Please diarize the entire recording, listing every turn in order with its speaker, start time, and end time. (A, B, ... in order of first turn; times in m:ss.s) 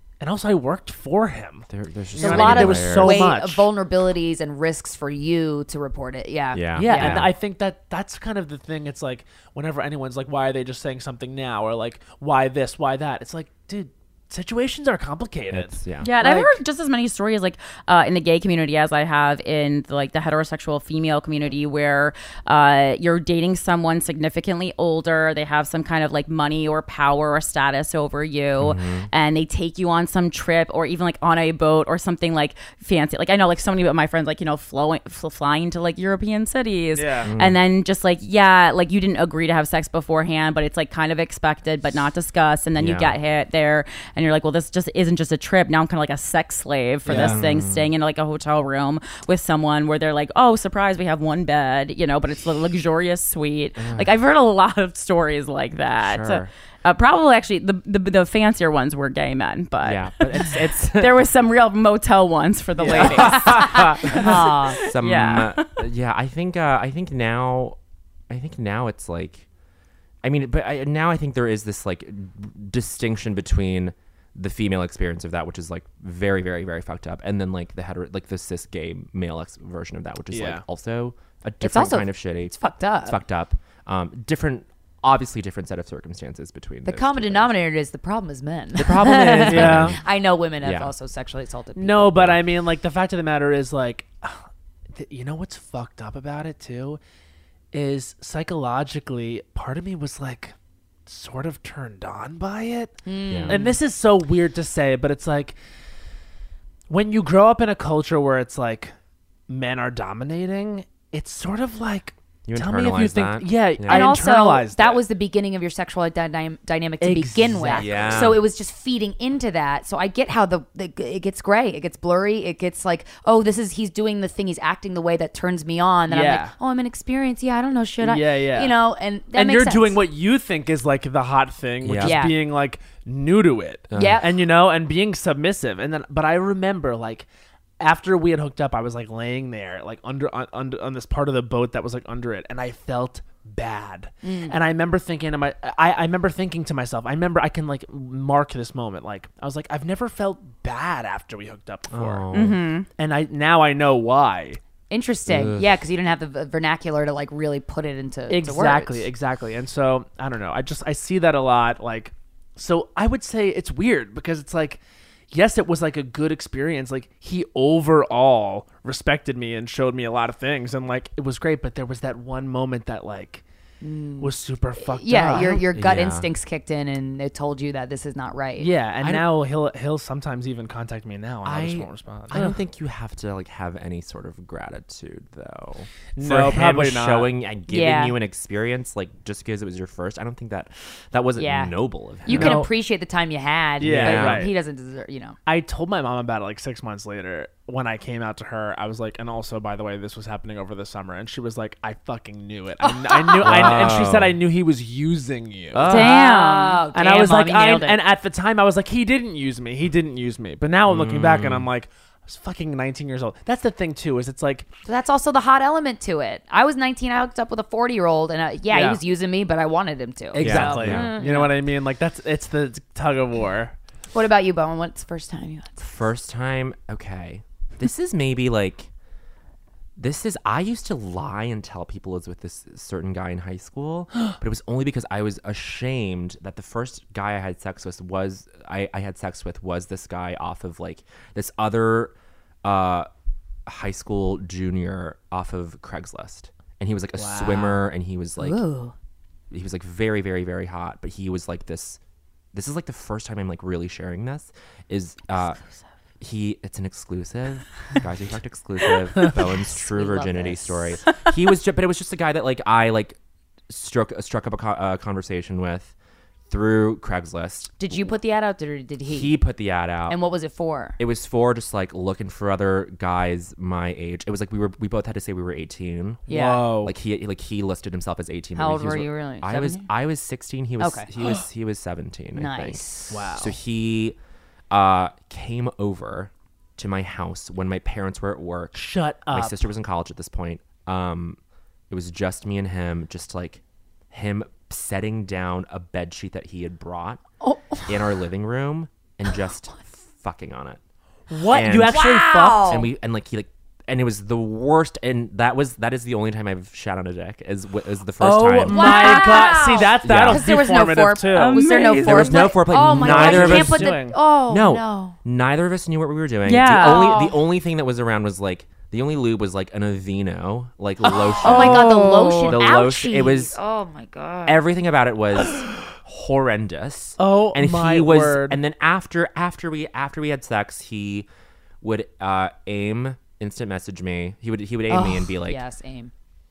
0:00.2-0:03.7 A
0:01.7-0:03.3 B
0:02.2-0:07.3 C
0:06.5-0:07.3 B
0:06.7-0:16.5 A
0:15.5-0:16.1 B
0:16.0-1:05.6 D
0:28.6-0:29.1 B
0:36.9-0:37.3 A
0:37.2-0:37.6 B
0:42.8-0:43.2 B
0:47.0-0:47.4 A
0:47.1-0:47.9 B
0:53.8-0:54.1 B
0:56.0-0:56.5 B
0:59.8-1:01.2 B
1:02.8-1:03.5 A
1:03.0-1:07.8 B
1:04.1-1:04.8 C
1:08.3-1:09.4 B
1:10.2-1:27.6 B
1:20.3-1:20.6 A
1:21.6-1:23.2 C
1:26.8-1:32.3 C
1:28.7-1:30.0 B
1:29.3-1:30.0 A
1:30.6-1:30.9 B
1:31.8-1:37.0 A
1:37.7-1:40.5 A
1:41.0-1:45.6 A
1:43.0-1:43.8 C
1:43.3-1:43.6 B
1:46.9-1:48.9 A
1:49.5-1:55.0 A
1:52.4-1:54.1 B
1:53.9-2:10.0 C
1:57.0-1:58.3 A
1:57.7-1:58.5 B
2:06.1-2:06.5 A
2:08.0-2:08.8 A
2:09.3-2:17.3 A
2:11.8-2:12.3 B
2:12.0-2:12.3 C
2:13.9-2:14.2 B
2:13.9-2:14.3 C
2:17.8-2:32.3 A
2:24.2-2:24.6 C
2:31.9-2:32.7 B
2:32.3-2:32.8 D
2:33.0-2:34.6 A
2:34.9-2:39.1 C
2:35.2-2:35.7 B
2:38.3-2:53.4 A
2:53.8-2:59.2 C
2:54.2-2:55.7 A
2:55.7-2:56.3 B
2:58.6-3:02.6 A
3:01.4-3:12.7 B
3:06.2-3:07.3 A
3:07.7-3:08.2 C
3:11.4-3:15.4 C
3:12.3-3:12.7 A
3:13.8-3:14.5 A
3:13.8-3:14.5 B
3:15.4-3:25.9 A
3:22.8-3:23.7 C
3:23.4-3:24.4 B
3:25.7-3:26.2 B
3:25.8-3:26.8 D
3:25.9-3:28.0 C
3:26.9-3:34.7 A
3:30.8-3:31.7 B
3:34.8-3:41.5 C
3:38.7-3:39.0 A
3:40.3-3:43.7 A
3:40.4-3:41.2 B
3:44.1-3:46.0 C
3:45.8-3:48.9 B
3:50.0-4:03.1 B
4:03.6-4:08.6 B
4:07.1-4:07.9 A
4:08.4-4:08.9 C
4:09.5-4:12.0 B
4:12.5-4:15.6 B
4:16.2-4:23.2 B
4:19.2-4:21.0 C
4:23.7-4:25.9 B
4:26.5-4:28.0 B
4:27.8-4:29.4 C
4:29.0-4:30.2 B
4:30.1-4:31.0 C
4:31.0-4:44.2 B
4:36.3-4:36.9 A
4:36.3-4:36.7 C
4:38.5-4:39.9 C
4:40.8-4:41.3 C
4:42.3-4:43.2 C
4:43.1-4:43.6 A
4:44.7-4:51.4 B
4:48.7-4:49.7 A
4:51.9-4:57.2 B
4:57.4-4:58.0 C
4:57.8-5:00.8 B
5:01.3-5:02.8 A
5:01.5-5:09.5 B
5:01.8-5:02.9 C
5:08.2-5:11.6 A
5:08.6-5:15.2 C
5:10.0-5:10.5 B
5:11.3-5:12.5 D
5:11.8-5:23.6 B
5:12.7-5:14.2 A
5:16.4-5:17.1 D
5:16.8-5:17.4 C
5:21.0-5:24.6 C
5:21.4-5:22.6 D
5:21.5-5:21.9 A
5:24.4-5:31.3 B
5:27.2-5:28.6 A
5:31.8-5:35.6 B
5:34.9-5:36.1 C